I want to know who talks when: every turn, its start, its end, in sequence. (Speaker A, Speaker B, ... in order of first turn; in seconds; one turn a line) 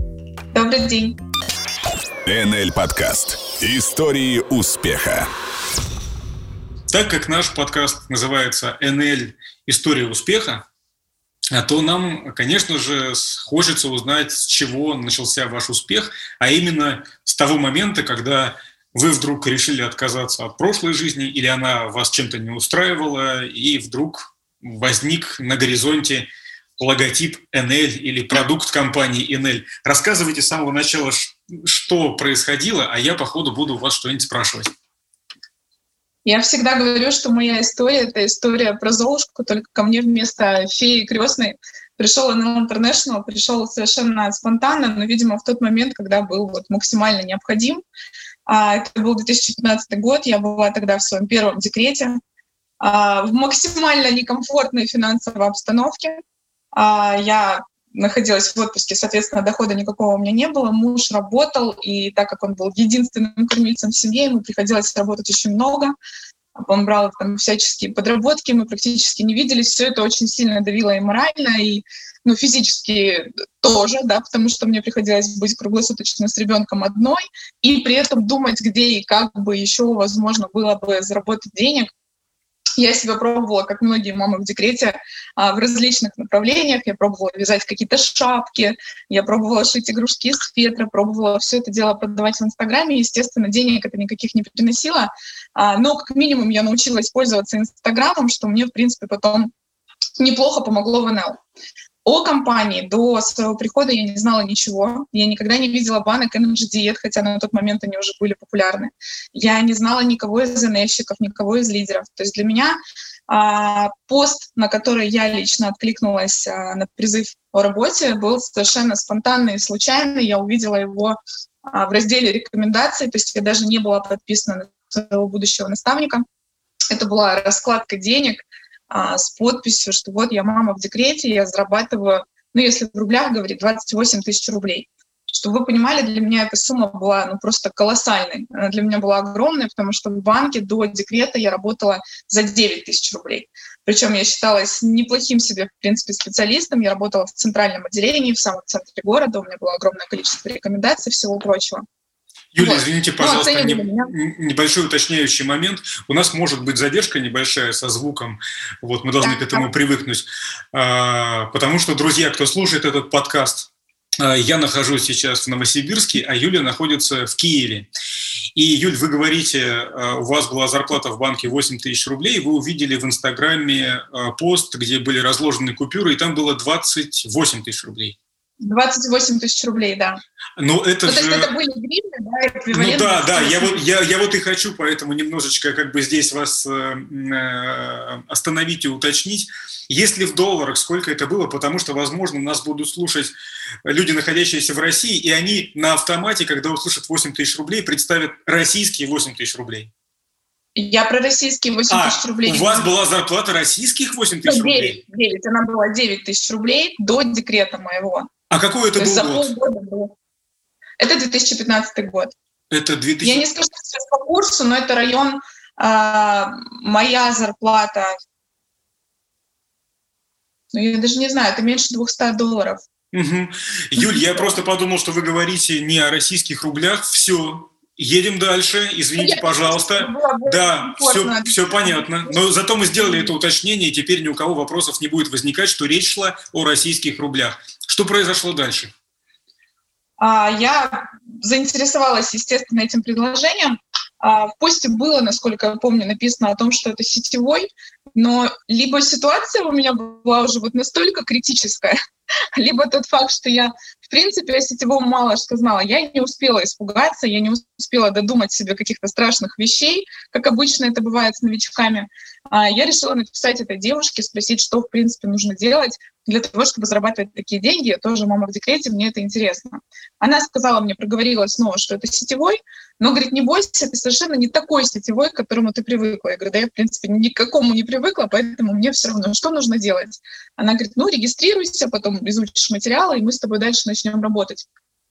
Speaker A: 0.5-1.2
Speaker B: 2.3-5.3
Speaker C: 6.9-10.6
Speaker C: 11.5-34.7
Speaker A: 36.2-47.8
Speaker A: 48.5-52.2
Speaker A: 52.8-56.2
Speaker A: 56.7-66.0
Speaker A: 66.6-81.9
Speaker A: 82.8-99.5
Speaker A: 100.2-101.4
Speaker A: 102.0-121.2
Speaker A: 121.7-126.2
Speaker A: 126.9-151.8
Speaker C: 152.5-167.9
Speaker A: 152.6-154.1
Speaker A: 159.2-159.7
Speaker C: 168.5-178.2
Speaker A: 178.6-180.2
Speaker C: 180.6-181.5
Speaker A: 181.1-183.8
Speaker C: 182.7-193.3
Speaker C: 193.8-199.9
Speaker A: 200.8-202.9
Speaker C: 201.9-205.0
Speaker A: 204.4-208.3
Speaker C: 208.5-209.5
Speaker A: 209.0-210.2
Speaker A: 211.0-212.3
Speaker C: 212.7-213.4
Speaker A: 213.2-218.1
Speaker A: 220.7-222.8
Speaker C: 223.1-238.9
Speaker A: 224.0-224.6
Speaker A: 229.2-232.4
Speaker A: 233.0-233.3
Speaker A: 240.2-252.0
Speaker A: 252.5-284.6